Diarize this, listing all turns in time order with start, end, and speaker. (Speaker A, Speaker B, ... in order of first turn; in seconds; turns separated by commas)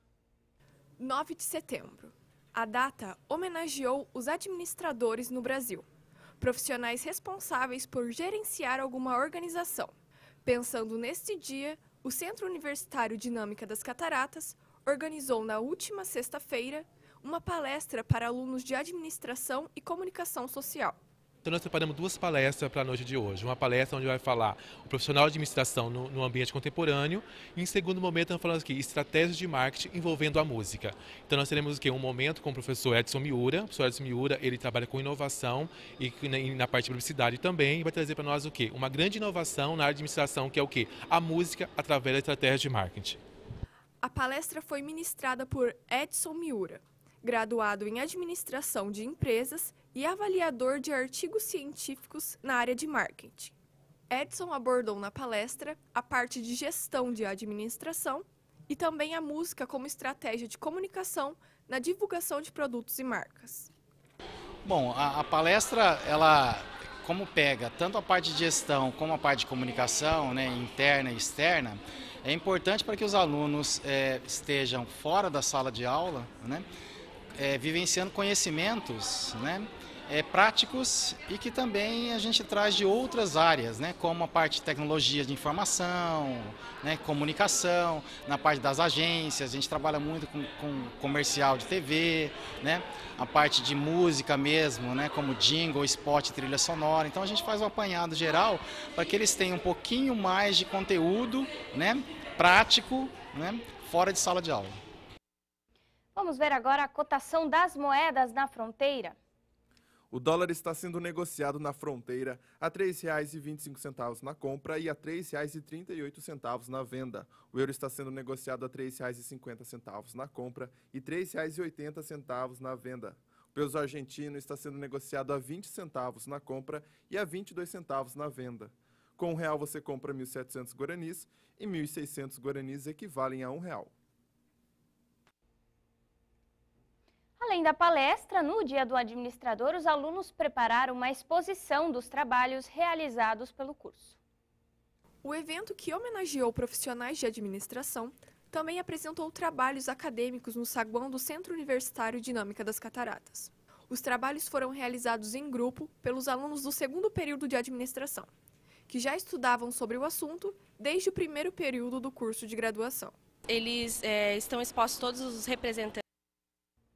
Speaker A: 1.0-5.9, Speaker A: 6.4-9.9, Speaker A: 10.4-21.0, Speaker B: 21.4-43.2, Speaker A: 44.0-53.5, Speaker A: 54.1-63.7, Speaker C: 64.6-76.7, Speaker C: 77.3-104.8, Speaker D: 106.2-109.2, Speaker E: 110.1-133.9, Speaker D: 137.4-144.2, Speaker A: 145.2-158.3, Speaker A: 158.9-163.1, Speaker F: 163.5-166.0